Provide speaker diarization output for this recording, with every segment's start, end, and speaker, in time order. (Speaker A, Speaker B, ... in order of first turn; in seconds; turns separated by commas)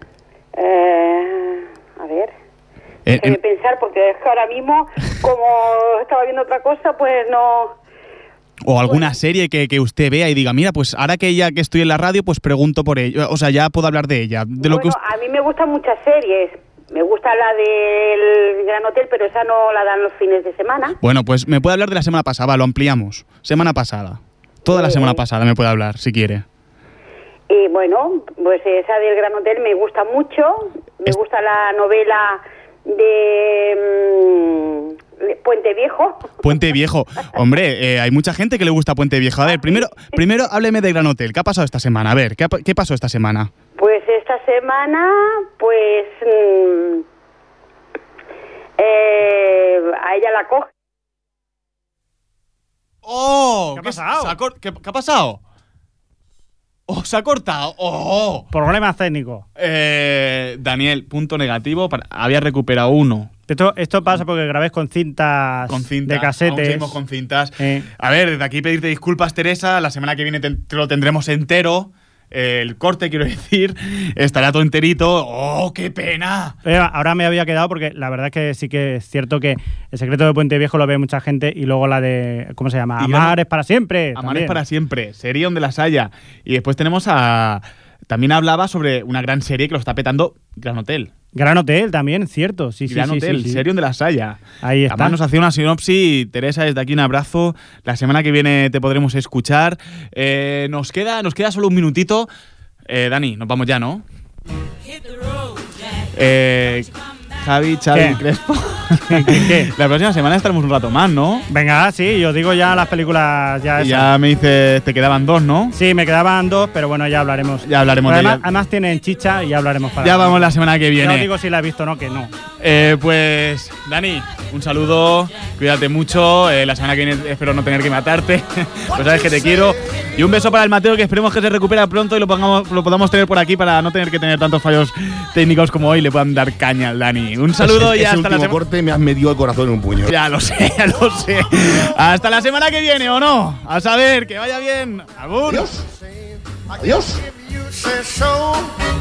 Speaker A: 0.6-2.3, Speaker B: 3.1-3.4, Speaker A: 3.2-7.7, Speaker B: 8.7-15.0, Speaker A: 14.6-21.0, Speaker B: 21.0-26.4, Speaker A: 24.7-25.2, Speaker A: 27.5-36.2, Speaker B: 36.4-43.5, Speaker A: 39.5-39.8, Speaker A: 43.8-47.0, Speaker A: 48.8-50.7, Speaker B: 53.0-55.4, Speaker C: 53.7-54.4, Speaker B: 56.9-58.5, Speaker C: 58.5-59.5, Speaker B: 59.6-63.3, Speaker C: 63.5-67.0, Speaker B: 65.7-76.6, Speaker C: 67.6-67.9, Speaker C: 76.7-84.6, Speaker B: 83.0-83.4, Speaker B: 84.2-91.1, Speaker C: 91.3-93.7, Speaker B: 92.9-102.3, Speaker C: 94.6-95.2, Speaker B: 102.9-104.0, Speaker B: 106.1-111.5, Speaker C: 108.0-108.2, Speaker C: 109.1-109.7, Speaker C: 111.5-114.1, Speaker B: 113.8-115.8, Speaker C: 115.7-122.3, Speaker B: 117.6-118.5, Speaker B: 120.0-121.3, Speaker B: 122.6-138.6, Speaker D: 137.6-140.1, Speaker B: 140.1-145.7, Speaker D: 145.5-148.7